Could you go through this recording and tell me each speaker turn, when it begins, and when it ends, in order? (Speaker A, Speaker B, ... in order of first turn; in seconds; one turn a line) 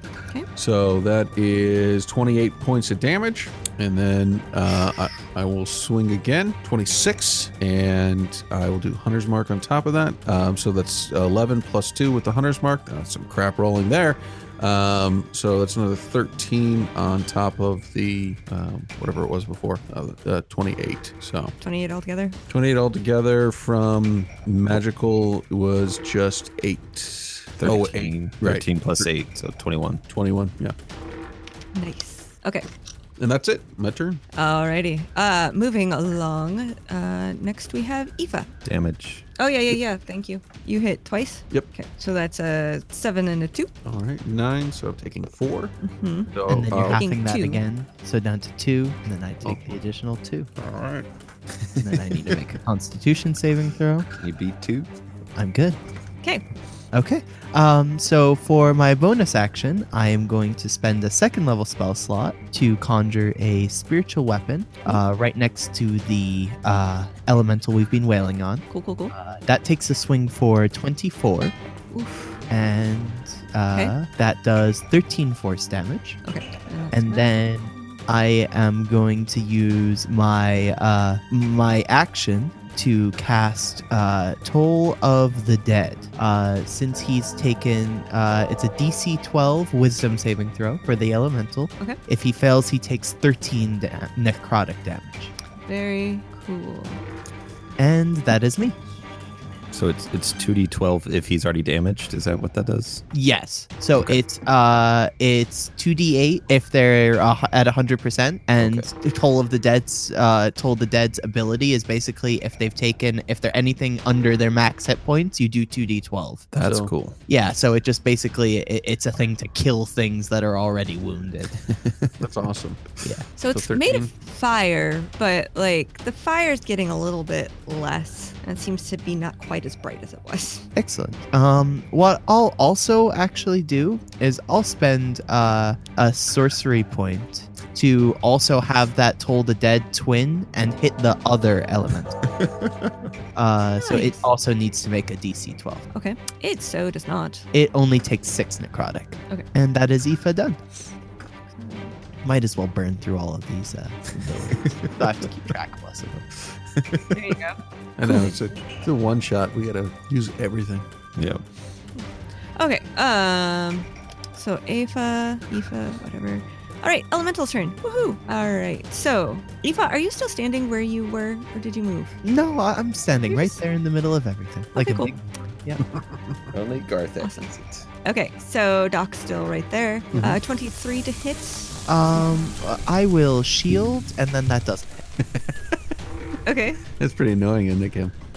Speaker A: 0.5-21.6
Speaker B: 21.6-22.4
Speaker A: 22.5-29.1
Speaker C: 27.6-30.0
Speaker A: 30.1-30.7
Speaker B: 31.7-32.7
Speaker A: 33.2-34.2
Speaker B: 34.3-38.5
Speaker C: 38.6-39.3
Speaker B: 39.4-43.7
Speaker A: 43.8-45.8
Speaker B: 45.8-47.6
Speaker A: 46.3-47.0
Speaker D: 46.5-50.5
Speaker A: 49.4-49.8
Speaker A: 50.6-51.1
Speaker D: 51.8-54.1
Speaker C: 54.1-54.9
Speaker D: 55.4-55.8
Speaker D: 56.9-71.5
Speaker B: 68.7-69.1
Speaker B: 71.9-72.4
Speaker D: 72.5-76.2
Speaker B: 76.2-77.3
Speaker D: 76.9-95.3
Speaker B: 95.7-97.0
Speaker D: 97.8-98.8
Speaker C: 99.7-103.0
Speaker D: 103.1-116.5
Speaker C: 108.6-108.9
Speaker C: 116.5-117.2
Speaker A: 116.6-116.9
Speaker D: 117.3-121.7
Speaker A: 122.2-124.1
Speaker B: 123.3-130.7
Speaker D: 130.8-142.2
Speaker D: 143.3-145.9
Speaker B: 143.8-144.2
Speaker B: 145.9-147.4
Speaker D: 147.5-150.6
Speaker B: 151.5-152.0
Speaker D: 152.2-156.2
Speaker C: 154.6-154.9
Speaker C: 156.8-157.1
Speaker B: 157.1-158.4
Speaker A: 158.0-160.8
Speaker C: 161.2-161.4
Speaker B: 161.9-172.2
Speaker D: 172.2-175.8
Speaker B: 173.3-173.6
Speaker B: 174.7-175.1
Speaker A: 175.9-176.3
Speaker C: 176.5-177.9
Speaker B: 177.2-177.5
Speaker B: 178.0-181.8
Speaker A: 180.1-180.4
Speaker D: 181.9-185.0
Speaker B: 186.4-186.8
Speaker A: 187.0-188.1